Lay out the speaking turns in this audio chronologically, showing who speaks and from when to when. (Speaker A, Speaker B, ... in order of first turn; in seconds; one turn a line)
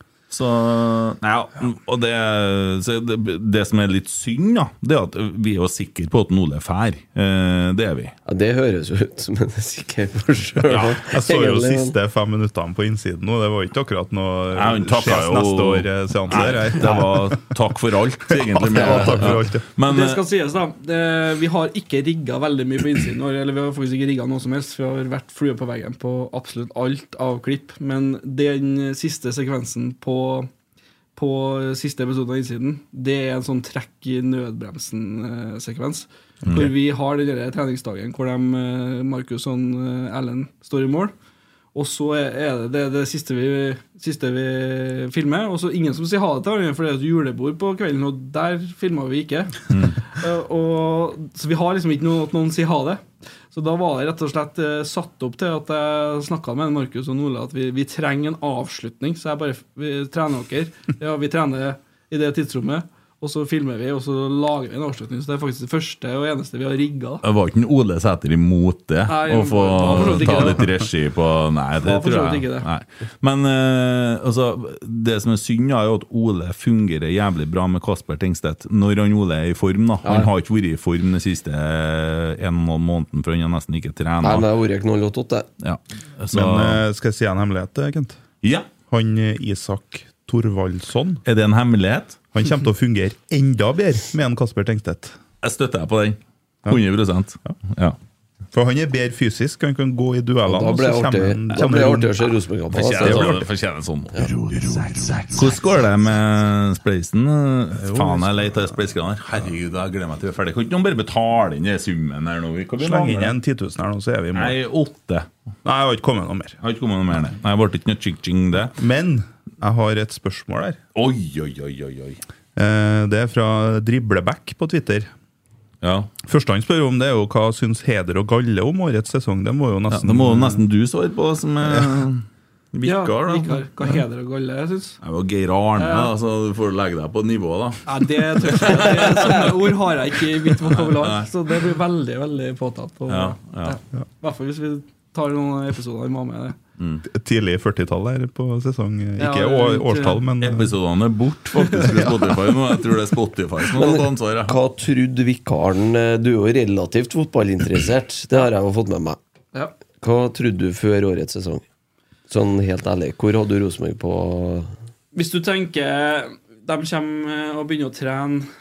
Speaker A: 0.3-8.2
Speaker B: 8.3-11.9
Speaker A: 10.7-10.9
Speaker C: 11.0-17.4
Speaker A: 14.5-20.2
Speaker C: 18.3-19.6
Speaker D: 19.9-30.5
Speaker D: 31.2-41.1
Speaker A: 36.5-36.7
Speaker D: 41.7-67.2
Speaker A: 49.7-50.0
Speaker A: 67.2-84.5
Speaker D: 69.1-70.8
Speaker D: 71.8-72.7
Speaker B: 80.0-80.3
Speaker B: 84.2-85.5
Speaker A: 85.6-86.8
Speaker C: 86.3-88.2
Speaker A: 88.4-88.7
Speaker C: 88.9-91.2
Speaker A: 91.2-92.2
Speaker C: 92.3-95.2
Speaker A: 95.4-98.0
Speaker C: 98.5-102.3
Speaker B: 100.5-103.3
Speaker A: 102.7-113.4
Speaker C: 102.9-103.5
Speaker C: 107.8-108.8
Speaker C: 112.8-114.6
Speaker A: 114.3-115.3
Speaker C: 115.7-116.6
Speaker A: 116.6-118.8
Speaker C: 118.7-120.8
Speaker A: 121.0-122.2
Speaker C: 122.6-125.1
Speaker A: 125.8-126.1
Speaker C: 126.2-130.6
Speaker A: 129.9-133.7
Speaker C: 131.7-131.9
Speaker D: 132.8-135.0
Speaker A: 135.0-139.7
Speaker D: 135.8-136.1
Speaker D: 137.9-146.6
Speaker A: 140.6-141.3
Speaker A: 143.1-143.8
Speaker A: 146.8-147.0
Speaker C: 147.1-150.7
Speaker D: 149.2-150.2
Speaker A: 150.4-154.6
Speaker C: 151.8-152.1
Speaker B: 153.8-159.2
Speaker B: 160.0-161.6
Speaker B: 162.3-164.7
Speaker D: 165.1-168.5